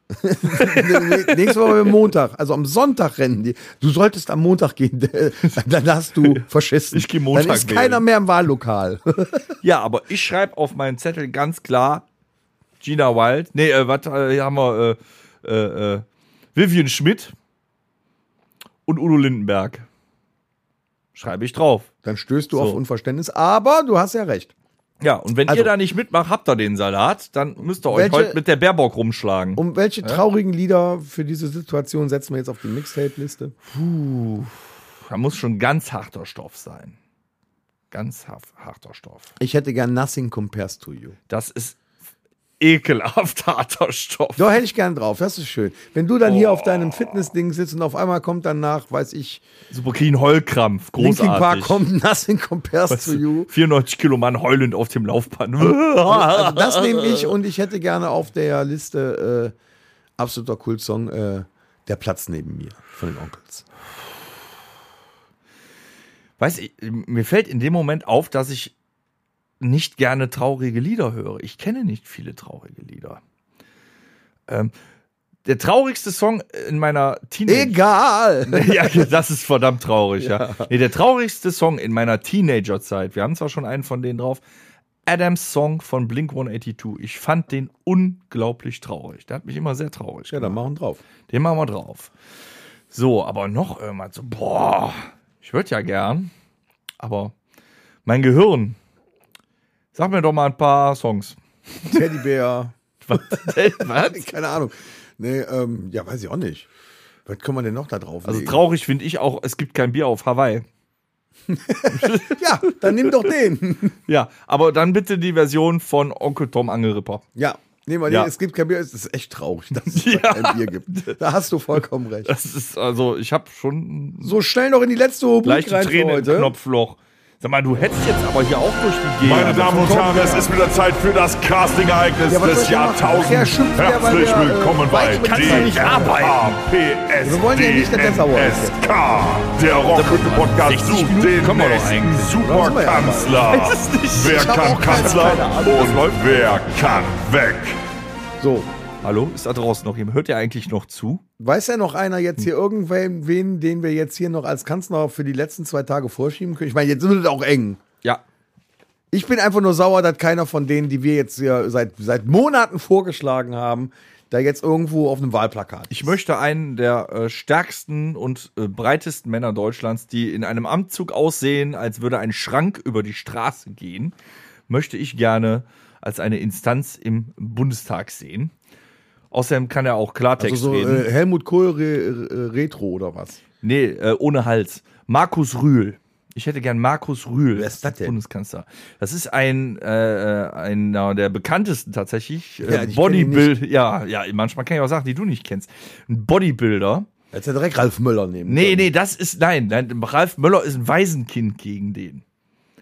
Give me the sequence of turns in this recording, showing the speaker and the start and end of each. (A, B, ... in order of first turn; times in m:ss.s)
0:00.1-0:09.5 A
0:00.4-0:02.0 B
0:06.2-0:08.0 B
0:09.6-0:12.0 B
0:12.8-0:17.3 B
0:18.9-0:19.9 B
0:21.1-0:21.9 B
0:22.0-0:24.5 A
0:22.5-0:22.8 B
0:25.0-0:30.2 B
0:27.8-0:28.4 A
0:29.6-0:33.5 A
0:33.6-0:37.0 B
0:37.9-0:39.3 B
0:39.4-0:41.2 A
0:41.3-0:41.8 B
0:42.6-0:44.5 B
0:44.4-0:49.4 A
0:46.2-0:47.2 B
0:49.7-0:51.8 B
0:51.0-0:53.5 A
0:52.9-0:57.3 B
0:56.0-0:59.5 A
1:00.2-1:03.6 A
1:06.4-1:08.7 B
1:09.6-1:13.2 B
1:14.5-1:14.7 B
1:15.4-1:17.8 B
1:17.5-1:19.1 A
1:18.5-1:24.4 B
1:20.2-1:20.6 A
1:25.0-1:30.6 B
1:30.3-1:31.0 A
1:31.3-1:32.1 B
1:32.9-1:36.3 B
1:37.0-1:37.3 B
1:38.0-1:38.8 B
1:39.9-1:42.0 B
1:41.9-1:46.7 A
1:43.1-1:44.3 B
1:47.3-1:48.6 A
1:48.2-1:50.6 B
1:51.5-1:54.0 A
1:51.9-1:53.3 B
1:54.1-1:57.2 B
1:57.4-2:02.3 A
1:59.9-2:01.2 B
2:02.2-2:04.4 B
2:04.2-2:06.5 A
2:05.4-2:10.0 B
2:09.2-2:27.8 C
2:09.5-2:10.5 A
2:12.3-2:16.2 A
2:15.2-2:16.6 B
2:17.2-2:19.2 A
2:19.9-2:22.5 B
2:22.3-2:26.1 A
2:23.5-2:26.7 B
2:28.4-2:28.7 A
2:29.0-2:31.2 B
2:31.4-2:37.8 A
2:39.1-2:46.2 A
2:45.9-2:54.1 B
2:54.7-2:58.5 B
2:59.3-3:01.0 B
3:00.4-3:03.4 A
3:03.6-3:17.1 B
3:07.6-3:08.2 A
3:12.6-3:13.5 A
3:17.3-3:18.9 A
3:18.4-3:22.2 B